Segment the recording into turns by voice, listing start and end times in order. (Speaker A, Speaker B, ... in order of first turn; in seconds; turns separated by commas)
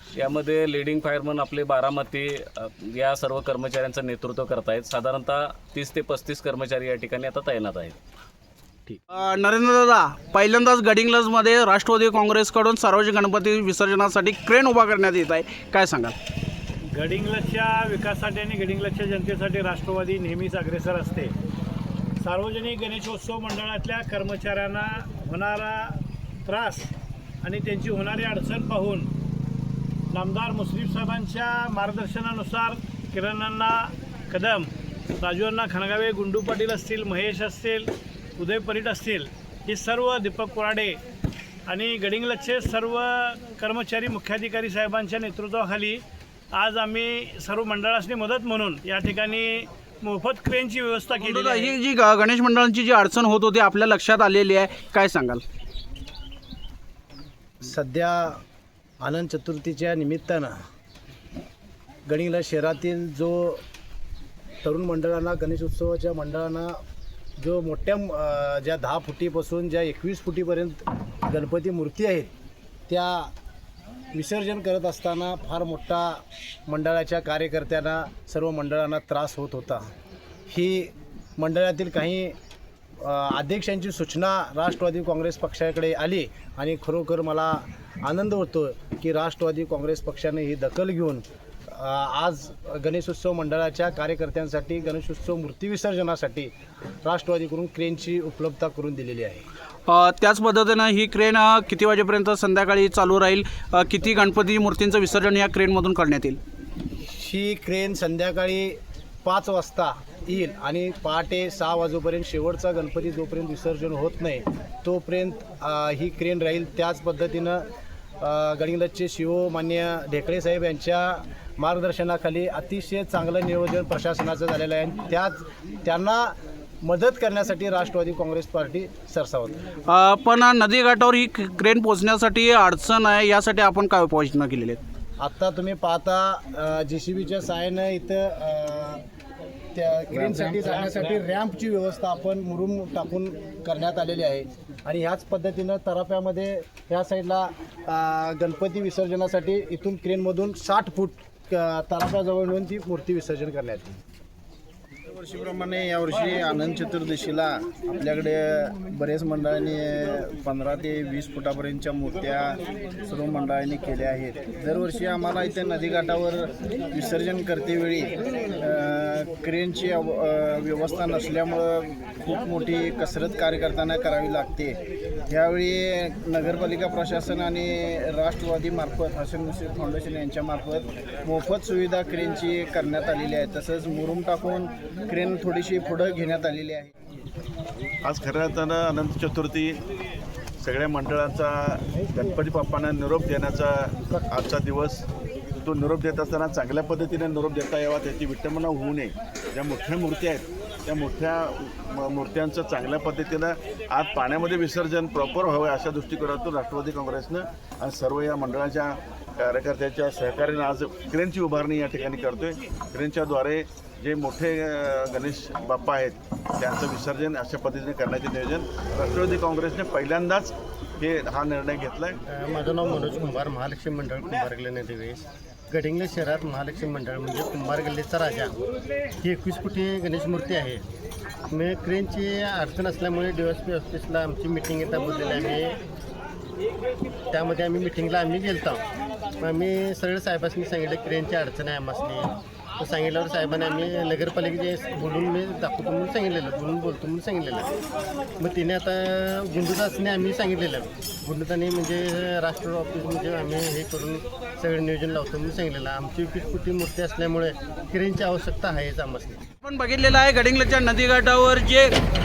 Speaker A: 0.1-7.9, Speaker B: 9.1-16.1, Speaker C: 16.9-21.3, Speaker C: 22.2-26.9, Speaker C: 27.4-29.1, Speaker C: 30.1-34.7, Speaker C: 35.2-41.0, Speaker C: 41.7-46.0, Speaker C: 46.5-51.7, Speaker B: 51.2-55.4, Speaker D: 57.6-58.4, Speaker D: 59.0-60.6, Speaker D: 62.1-63.6, Speaker D: 64.6-66.8, Speaker D: 67.4-72.3, Speaker D: 72.9-73.3, Speaker D: 74.1-79.9, Speaker D: 80.5-82.4, Speaker D: 83.0-96.5, Speaker D: 97.0-99.4, Speaker B: 99.9-106.4, Speaker D: 107.0-117.7, Speaker D: 118.2-129.6, Speaker B: 129.9-134.8, Speaker D: 135.2-139.0, Speaker D: 139.7-154.0, Speaker E: 155.1-186.9, Speaker F: 188.0-189.8, Speaker F: 190.6-195.1, Speaker F: 195.6-222.2, Speaker G: 222.3-228.5, Speaker G: 229.2-230.8, Speaker G: 231.5-235.8, Speaker G: 237.3-238.8, Speaker G: 239.4-247.7, Speaker G: 248.4-259.4, Speaker B: 259.6-261.9